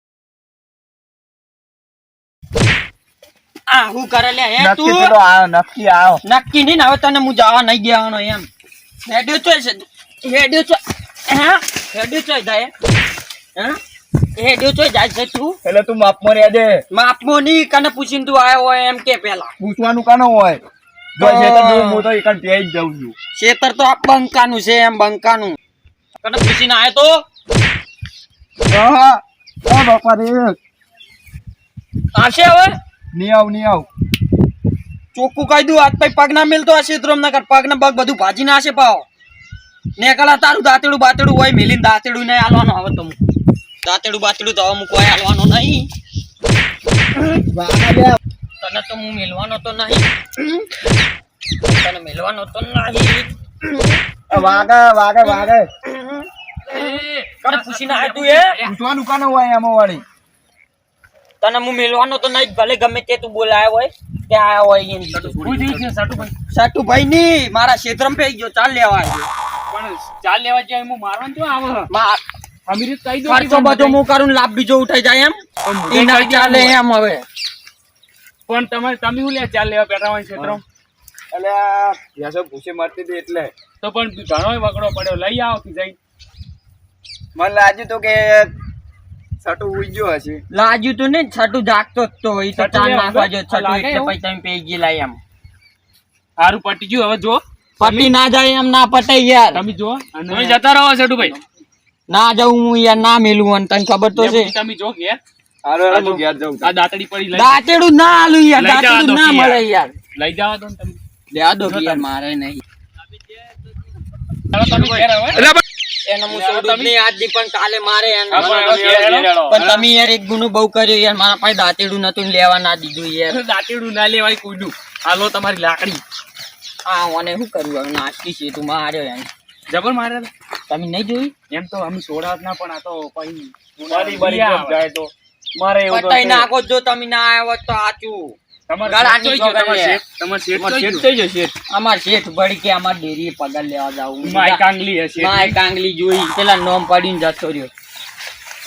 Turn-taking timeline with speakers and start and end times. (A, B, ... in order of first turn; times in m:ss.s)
0:03.7-0:05.1 A
0:04.6-0:06.2 B
0:06.2-0:08.5 A
0:09.1-0:12.7 A
0:14.4-0:15.6 A
0:15.6-0:16.8 B
0:16.9-0:19.5 A
0:19.6-0:20.6 B
0:21.2-0:23.2 B
0:21.2-0:22.0 A
0:23.3-0:25.6 A
0:26.2-0:27.2 A
0:28.7-0:30.6 B
0:32.2-0:32.8 A
0:33.1-0:33.9 B
0:35.2-0:39.1 A
0:40.0-0:43.2 A
0:43.8-0:45.9 A
0:47.6-0:48.0 B
0:48.6-0:50.6 A
0:51.6-0:54.7 A
0:54.3-0:55.7 B
0:55.2-0:58.5 A
0:56.9-0:58.5 C
0:58.6-1:00.0 B
1:01.4-1:05.7 A
1:05.1-1:06.3 C
1:06.5-1:09.3 A
1:09.7-1:11.9 C
1:11.9-1:12.2 A
1:12.7-1:14.0 C
1:13.3-1:15.4 A
1:15.6-1:16.8 C
1:15.9-1:17.2 A
1:18.5-1:20.6 C
1:20.4-1:20.6 B
1:21.3-1:23.5 B
1:23.8-1:26.0 C
1:27.4-1:28.5 B
1:29.4-1:30.4 B
1:30.5-1:35.2 A
1:32.6-1:34.1 C
1:36.4-1:37.4 C
1:37.8-1:39.6 A
1:37.8-1:38.1 B
1:39.5-1:41.4 C
1:42.1-1:44.5 A
1:44.2-1:45.2 C
1:45.6-1:46.8 B
1:45.9-1:47.5 C
1:47.3-1:49.9 A
1:48.6-1:49.6 C
1:50.2-1:51.0 C
1:51.3-1:52.6 A
1:51.7-1:52.0 C
1:54.5-1:55.5 C
1:56.0-1:58.9 A
1:56.3-1:56.9 C
1:58.3-1:59.8 C
1:59.4-2:03.4 A
2:03.3-2:06.0 C
2:06.8-2:09.3 A
2:09.7-2:10.3 C
2:10.7-2:11.3 A
2:11.5-2:15.1 C
2:13.8-2:14.9 B
2:15.6-2:15.9 B
2:15.8-2:16.5 C
2:15.9-2:20.0 A
2:18.7-2:21.1 C
2:20.5-2:21.5 B
2:21.7-2:24.7 A
2:24.2-2:25.6 C
2:25.2-2:27.7 A